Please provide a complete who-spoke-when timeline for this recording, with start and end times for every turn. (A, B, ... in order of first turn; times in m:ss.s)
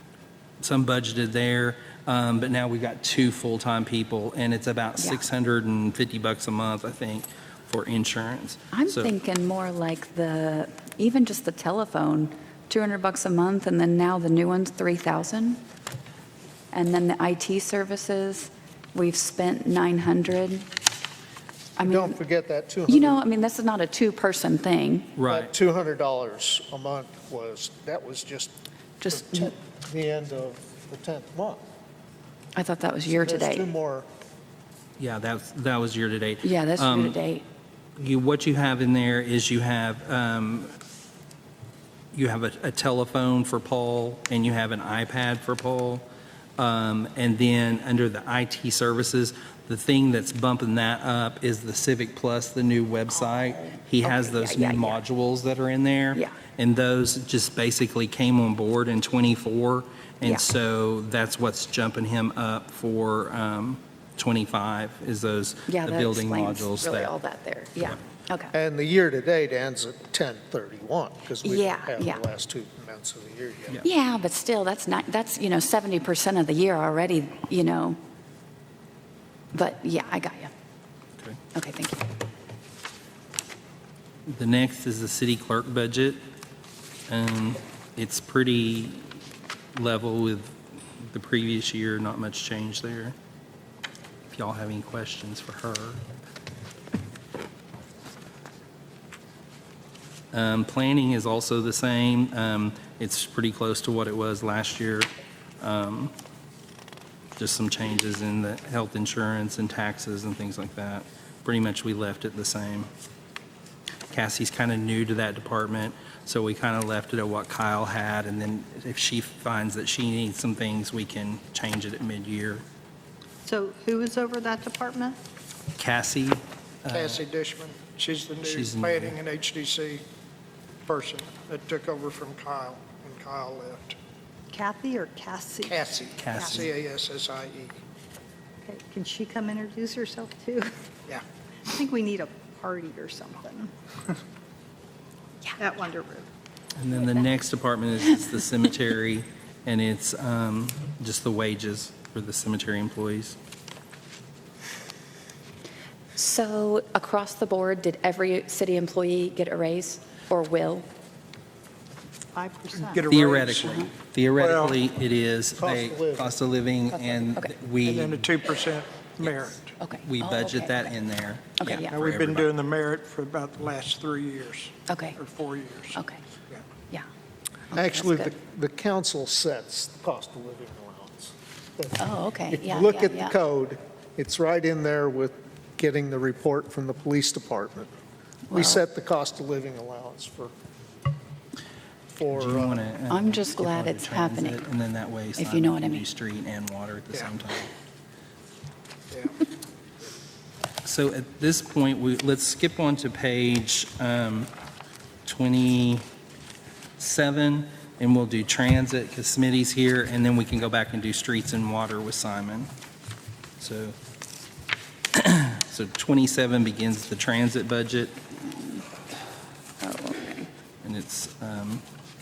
0:00.6-0:09.1 A
0:05.0-0:05.2 B
0:08.7-0:15.6 B
0:16.7-0:20.7 B
0:21.8-0:22.2 B
0:21.8-0:23.2 C
0:22.9-0:25.1 B
0:25.2-0:25.5 A
0:25.3-0:28.5 C
0:29.0-0:29.5 B
0:29.0-0:31.6 C
0:32.5-0:33.7 B
0:33.1-0:34.1 C
0:35.0-0:37.2 A
0:36.4-0:37.4 B
0:38.0-0:40.7 A
0:42.1-0:46.0 A
0:46.6-1:07.1 A
0:53.5-0:55.0 B
1:05.7-1:08.5 B
1:08.5-1:13.8 C
1:11.4-1:12.2 B
1:13.8-1:18.0 B
1:19.5-1:20.5 B
1:21.5-1:22.0 B
1:24.2-1:26.2 A
1:27.1-1:29.1 A
1:29.7-1:33.1 A
1:34.3-1:36.0 A
1:40.3-1:45.1 A
1:45.6-1:46.1 A
1:47.4-1:52.9 A
1:54.1-2:02.6 A
2:03.4-2:05.2 D
2:05.8-2:07.2 A
2:06.9-2:10.0 E
2:08.4-2:09.2 A
2:10.8-2:14.0 E
2:14.5-2:16.6 D
2:15.7-2:17.8 E
2:16.1-2:16.7 A
2:18.6-2:20.7 D
2:21.7-2:23.7 D
2:25.6-2:26.3 D
2:26.8-2:33.4 A
2:36.1-2:40.8 B
2:42.3-2:43.3 D
2:42.7-2:43.8 E
2:43.1-2:48.3 A
2:44.4-2:44.8 E
2:45.6-2:46.3 C
2:46.9-2:47.5 B
2:47.8-2:49.7 E
2:49.2-2:52.5 A
2:49.8-2:50.9 B
2:51.6-2:51.9 B
2:51.9-2:56.0 E
2:54.9-2:55.2 B
2:55.9-2:56.2 B
2:57.7-2:58.3 B
2:57.7-3:07.9 C
3:02.0-3:03.3 B
3:08.5-3:08.8 B
3:08.5-3:10.5 C
3:12.1-3:12.8 C
3:12.3-3:17.7 A
3:13.1-3:14.6 B
3:15.4-3:16.0 B
3:20.8-3:24.5 A
3:25.2-3:26.0 A
3:27.0-3:32.7 A
3:33.6-3:34.0 A
3:35.1-3:38.8 A
3:39.8-3:40.5 B
3:40.8-3:41.8 A